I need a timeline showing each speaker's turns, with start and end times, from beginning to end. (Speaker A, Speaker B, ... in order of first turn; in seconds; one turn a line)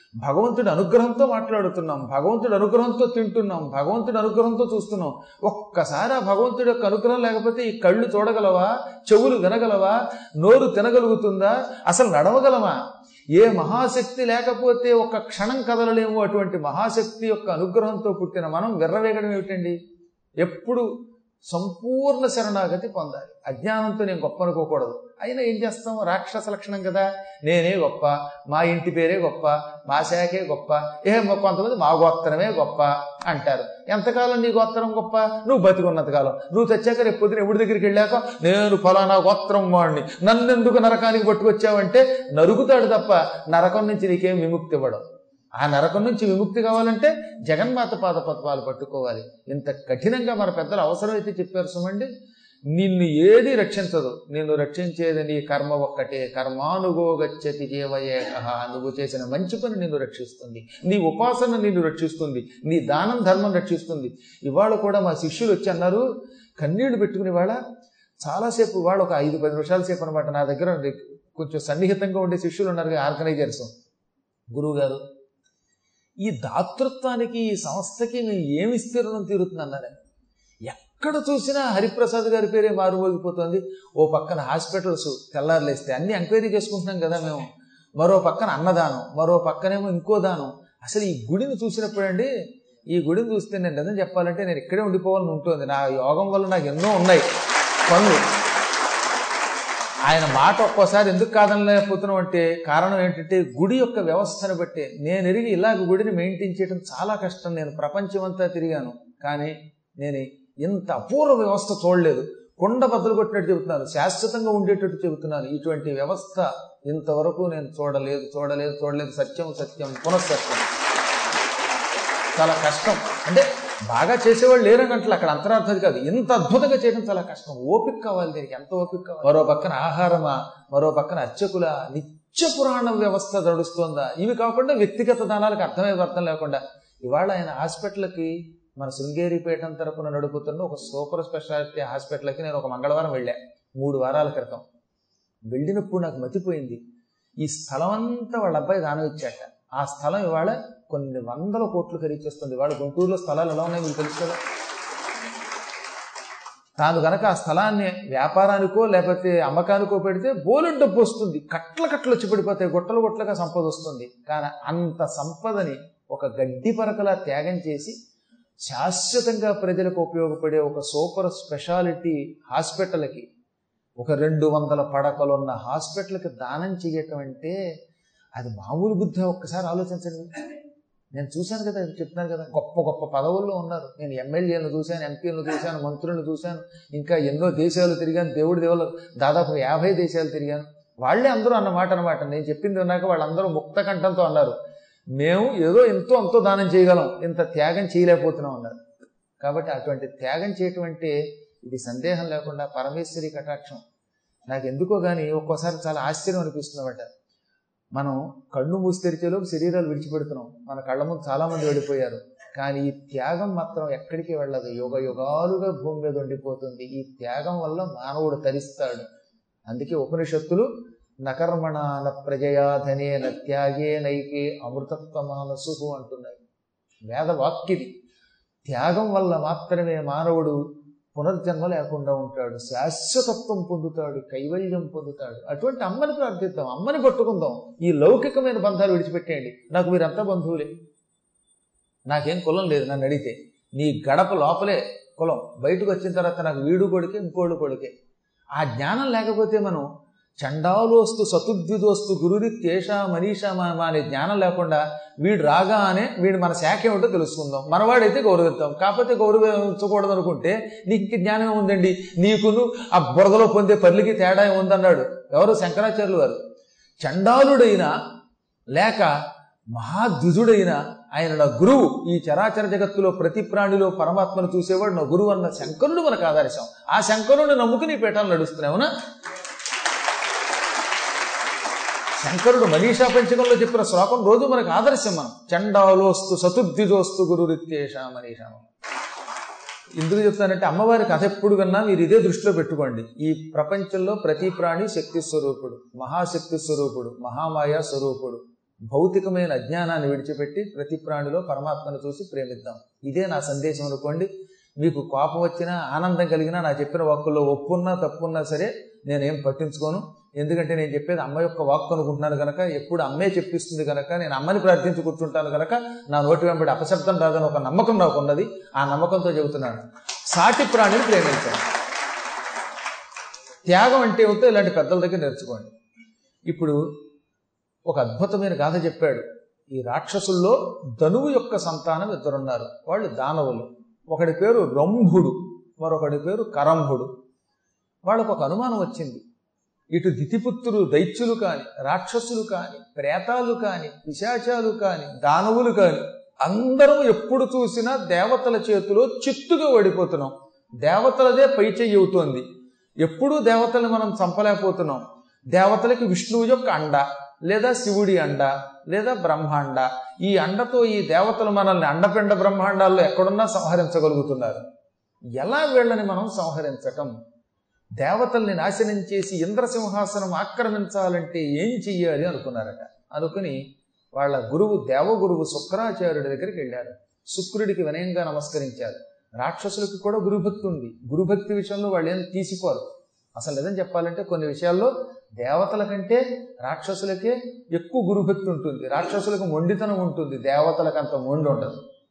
Speaker A: 0.2-12.8
Speaker A: 13.3-19.8
Speaker A: 20.4-20.9
Speaker A: 21.5-45.0
Speaker A: 45.6-52.1
Speaker A: 52.7-66.0
Speaker A: 66.6-67.6
Speaker A: 68.2-73.7
Speaker A: 74.5-75.0
Speaker A: 76.2-79.9
Speaker A: 80.6-92.3
Speaker A: 92.9-97.2
Speaker A: 97.8-98.2
Speaker A: 100.0-120.7
Speaker A: 122.3-144.6
Speaker A: 145.5-146.8
Speaker A: 147.4-154.4
Speaker A: 156.8-167.9
Speaker A: 168.6-173.2
Speaker A: 174.0-177.6
Speaker A: 178.3-180.6
Speaker A: 181.1-194.6
Speaker A: 195.2-198.8
Speaker A: 199.4-203.8
Speaker A: 204.5-207.1
Speaker A: 207.9-219.1
Speaker A: 219.7-220.7
Speaker A: 221.2-226.4
Speaker A: 227.1-227.9
Speaker A: 228.6-230.6
Speaker A: 231.1-240.7
Speaker A: 242.1-247.9
Speaker A: 248.6-249.9
Speaker A: 250.4-266.4
Speaker A: 267.0-267.9
Speaker A: 268.7-269.1
Speaker A: 269.7-278.9
Speaker A: 282.2-288.6
Speaker A: 289.9-321.7
Speaker A: 323.7-325.7
Speaker A: 326.5-326.8
Speaker A: 327.9-337.1
Speaker A: 338.0-339.2
Speaker A: 339.9-352.4
Speaker A: 353.0-364.6
Speaker A: 365.4-367.1
Speaker A: 368.0-373.6
Speaker A: 374.1-391.8